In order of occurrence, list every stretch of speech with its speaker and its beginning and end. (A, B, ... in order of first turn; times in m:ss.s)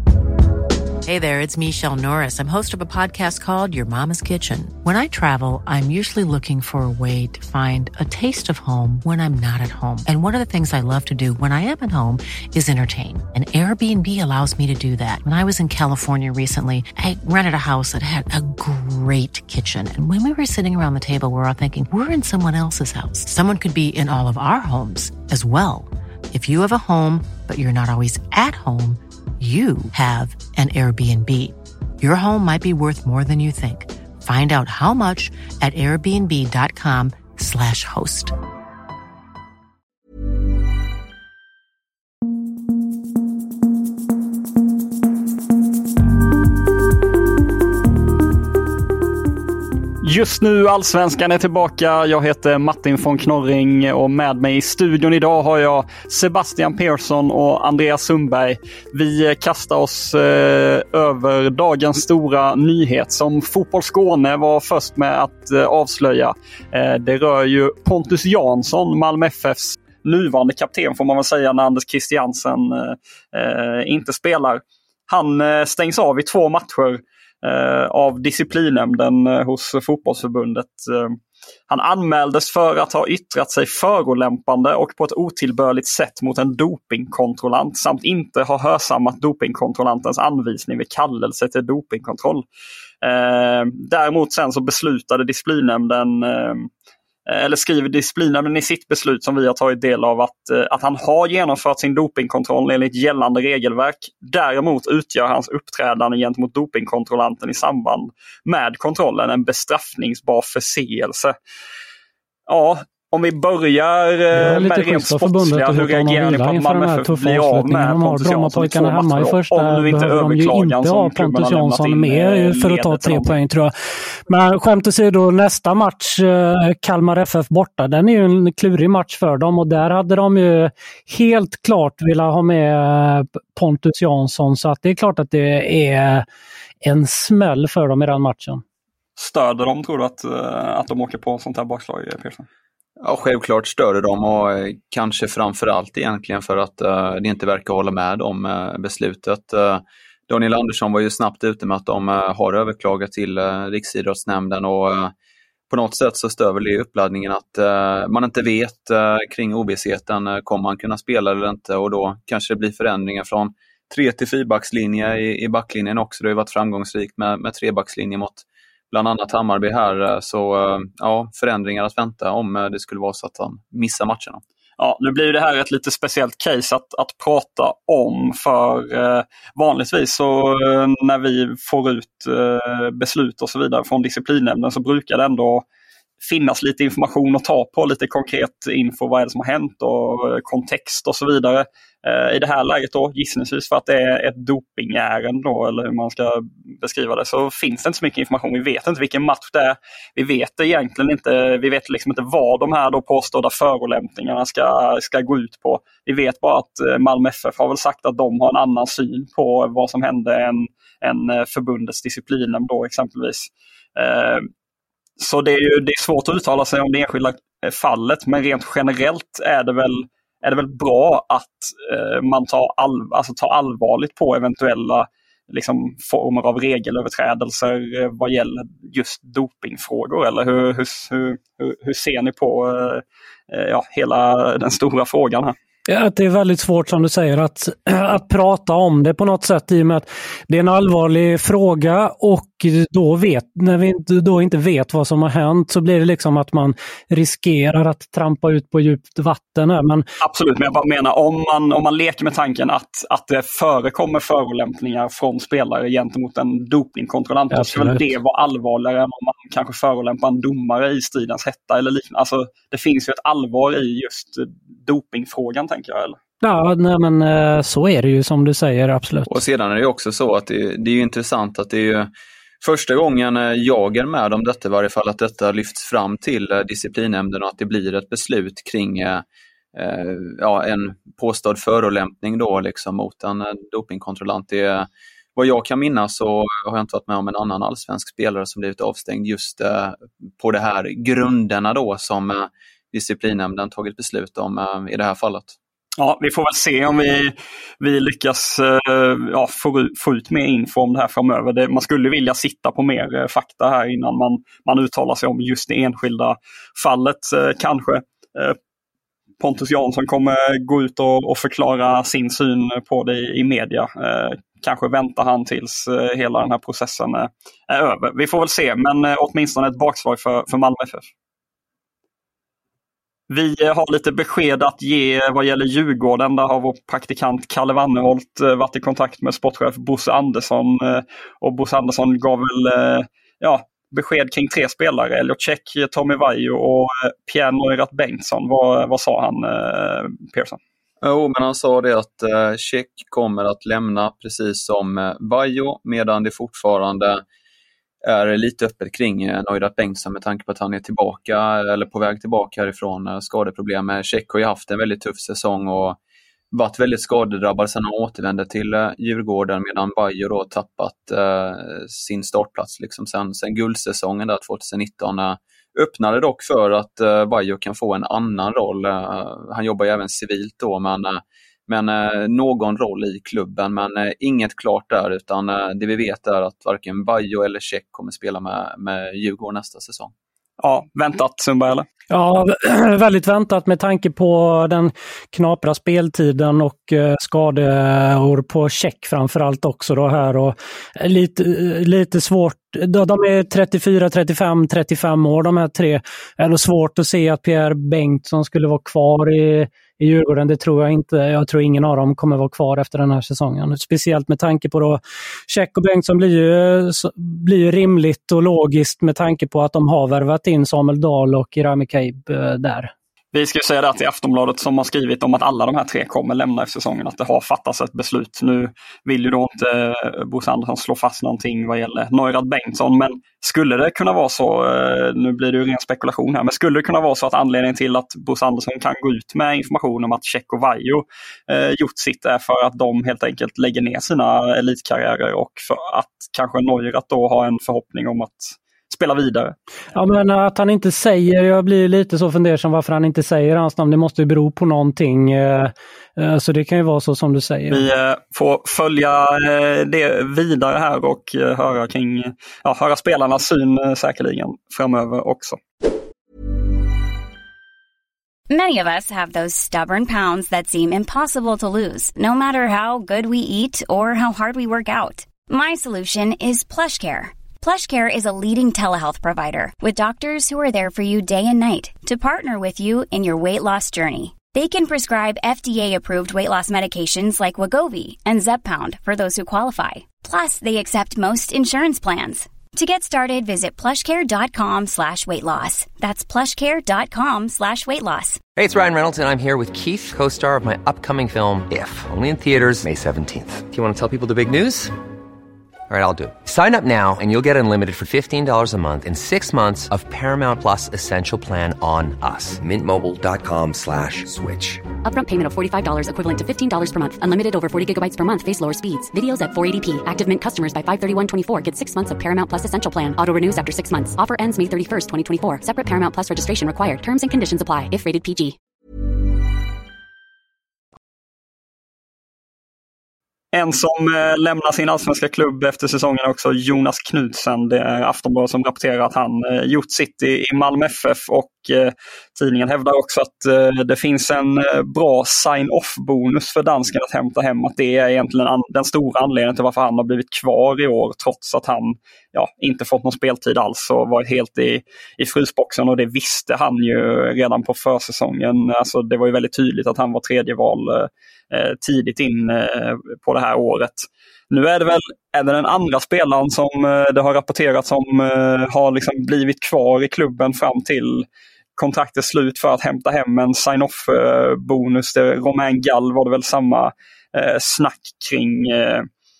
0:01.0-0:38.3 A
0:50.0-1:21.2 B
1:21.7-1:32.4 B
1:33.0-1:36.7 B
1:37.3-1:51.3 B
1:52.5-2:03.4 B
1:54.3-2:16.2 C
2:16.8-2:18.6 C
2:19.2-2:22.5 B
2:23.0-2:35.1 D
2:35.7-2:54.4 D
2:54.8-3:05.6 B
3:06.2-3:34.5 B
3:35.2-3:55.6 B
3:55.9-4:10.0 C
4:10.2-4:26.2 B
4:17.5-4:18.1 C
4:26.4-4:29.4 C
4:29.3-4:32.1 D
4:32.6-4:55.5 D
4:56.0-5:08.6 B
5:09.4-5:21.1 B
5:23.3-5:40.6 B
5:41.0-5:47.2 D
5:48.0-5:56.0 D
5:56.5-6:20.1 D
6:20.6-6:21.8 B
6:22.1-6:52.9 C
6:53.3-7:19.6 B
7:19.9-7:27.9 C
7:27.7-7:35.6 B
7:38.5-8:08.4 E
8:08.6-8:14.9 F
8:15.9-8:24.8 F
8:25.0-8:38.6 G
8:43.5-9:21.2 B
9:21.8-9:29.1 B